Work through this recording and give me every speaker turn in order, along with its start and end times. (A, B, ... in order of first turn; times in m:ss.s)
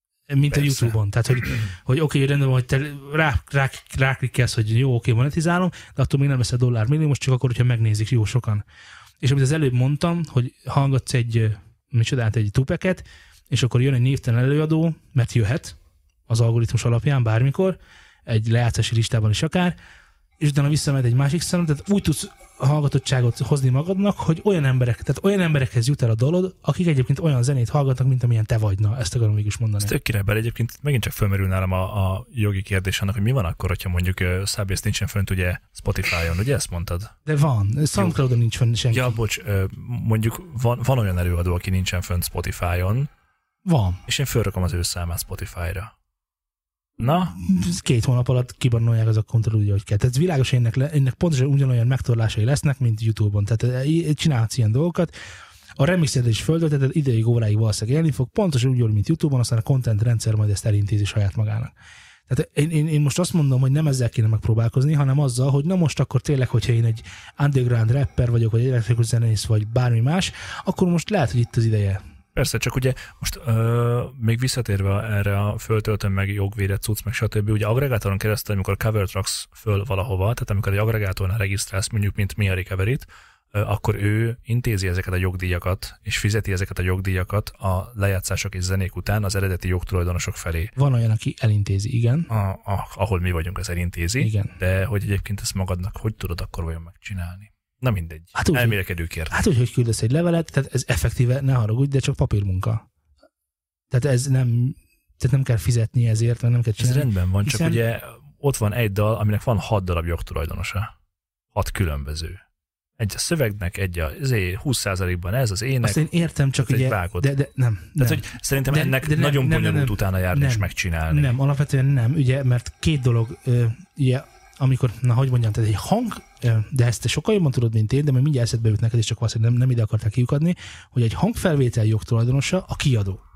0:00.3-0:08.6 A
0:00.5-0:01.0 B
0:09.2-0:15.8 A
0:16.3-0:19.8 A
0:20.4-0:29.9 A
0:29.8-0:37.1 B
0:37.3-0:39.2 A
0:38.9-0:43.1 B
0:43.6-0:44.0 A
0:44.1-0:45.9 B
0:47.0-0:47.4 B
0:47.3-0:55.1 A
0:55.8-1:01.7 A
1:02.3-1:12.0 A
1:12.4-1:30.7 B
1:30.8-1:32.3 A
1:32.3-1:39.4 B
1:34.2-1:34.6 A
1:38.4-1:38.8 A
1:39.3-1:42.8 A
1:43.9-1:47.8 A
1:46.8-1:50.9 B
1:51.5-1:52.4 B
1:53.0-1:56.0 B
1:55.8-2:13.2 A
1:56.6-1:57.3 B
1:58.0-2:01.3 B